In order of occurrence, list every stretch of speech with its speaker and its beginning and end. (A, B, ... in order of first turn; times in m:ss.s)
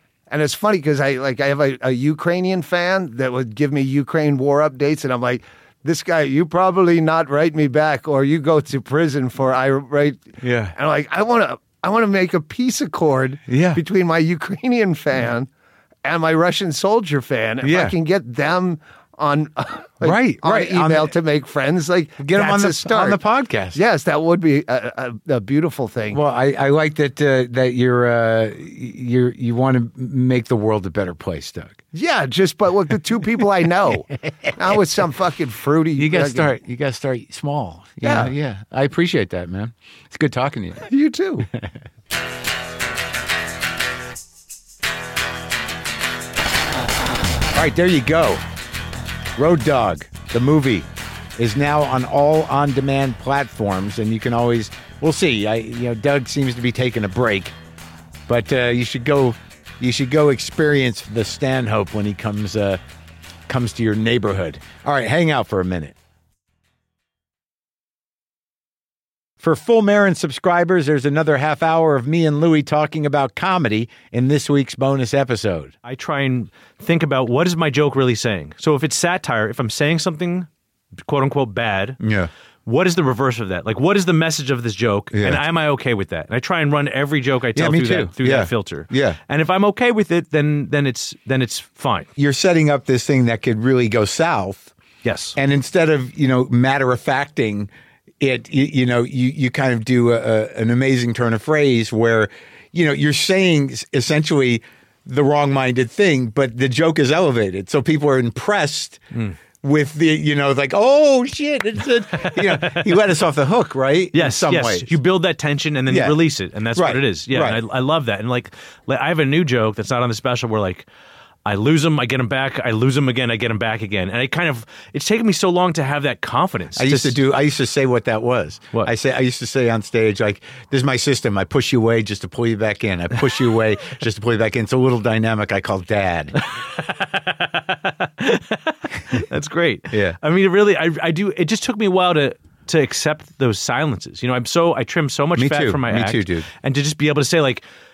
0:00.3-0:15.5 A
0:10.4-0:10.7 B
0:13.5-0:13.8 B
0:16.0-0:23.2 A
0:17.6-0:17.9 B
0:20.0-0:21.1 B
0:22.2-0:23.8 B
0:23.7-0:26.2 A
0:26.1-0:31.8 B
0:31.9-0:36.5 A
0:36.0-0:40.9 B
0:38.0-0:38.3 A
0:40.9-0:41.5 A
0:47.5-0:48.4 B
0:49.4-0:57.5 B
0:58.3-1:02.8 B
1:03.5-1:05.9 B
1:09.4-1:15.7 B
1:15.8-1:20.5 C
1:21.0-1:22.0 C
1:22.0-1:22.3 B
1:22.6-1:32.1 C
1:25.1-1:25.4 B
1:27.5-1:29.2 B
1:32.2-1:34.7 B
1:35.0-1:35.3 C
1:35.3-1:37.7 B
1:38.2-1:49.0 B
1:49.6-1:54.9 B
1:52.2-1:53.0 C
1:54.1-2:00.8 C
1:55.9-1:56.2 B
1:56.7-1:57.6 B
2:01.4-2:07.2 C
2:06.8-2:16.4 B
2:16.5-2:27.6 C
2:19.9-2:20.2 B
2:25.4-2:26.5 B